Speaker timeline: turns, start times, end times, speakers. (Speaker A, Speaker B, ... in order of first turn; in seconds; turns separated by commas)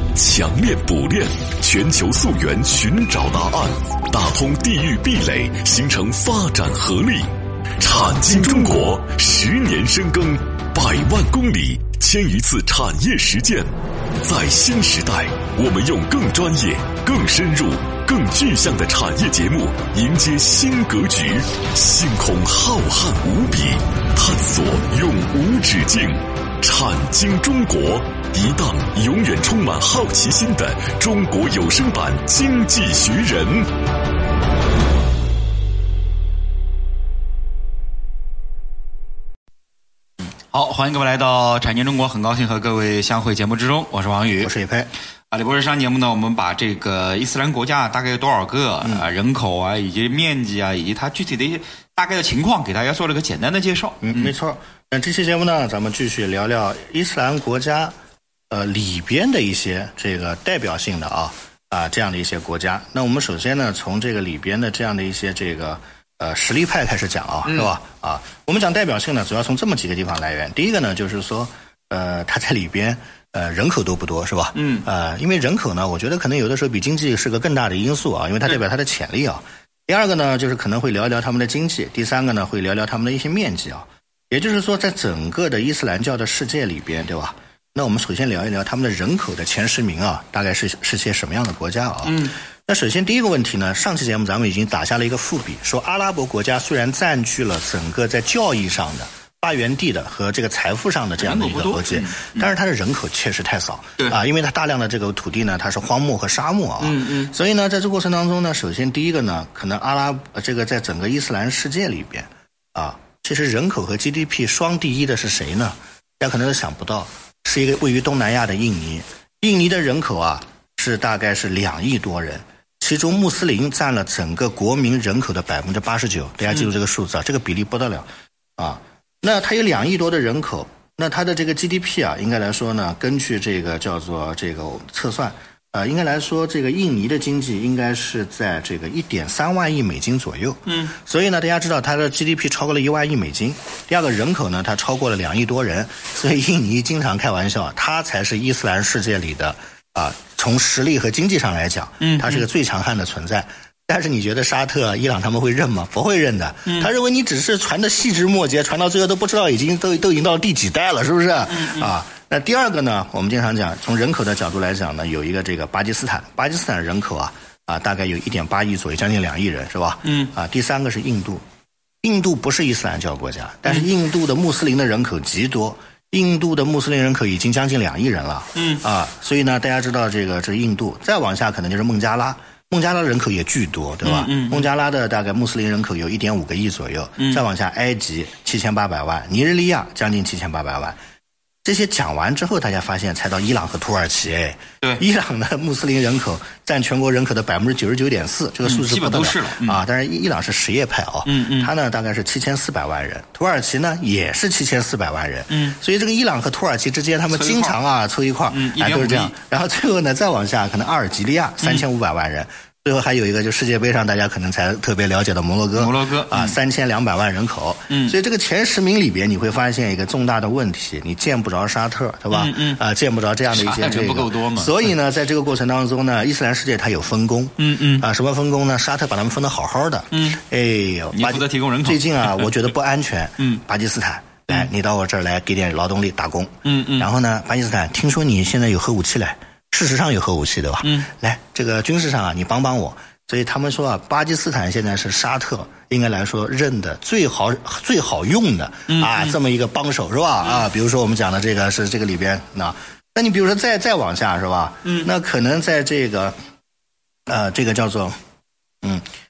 Speaker A: 0.1-7.3, Speaker A: 7.8-13.7, Speaker A: 14.2-33.7, Speaker B: 40.5-44.5, Speaker C: 44.4-44.9, Speaker B: 45.3-54.3, Speaker C: 54.0-57.9, Speaker C: 58.5-171.4, Speaker B: 74.5-74.9, Speaker B: 92.0-92.3, Speaker B: 101.2-102.5, Speaker B: 106.8-107.3, Speaker B: 140.7-140.9, Speaker B: 152.0-152.5, Speaker B: 161.5-161.9, Speaker B: 170.0-170.3, Speaker C: 172.0-191.0, Speaker B: 178.6-178.8, Speaker B: 184.0-184.7, Speaker B: 187.2-187.4, Speaker C: 191.6-256.4, Speaker B: 198.6-199.8, Speaker B: 201.2-201.7, Speaker B: 205.5-205.8, Speaker B: 207.3-207.8, Speaker B: 208.5-209.3, Speaker B: 211.6-211.9, Speaker B: 215.8-216.6, Speaker B: 217.9-218.1, Speaker B: 222.3-222.8, Speaker B: 223.5-224.9, Speaker B: 227.6-228.1, Speaker B: 230.1-230.4, Speaker B: 231.1-232.6, Speaker B: 236.7-237.1, Speaker B: 248.9-249.3, Speaker B: 254.8-255.1, Speaker C: 257.3-258.2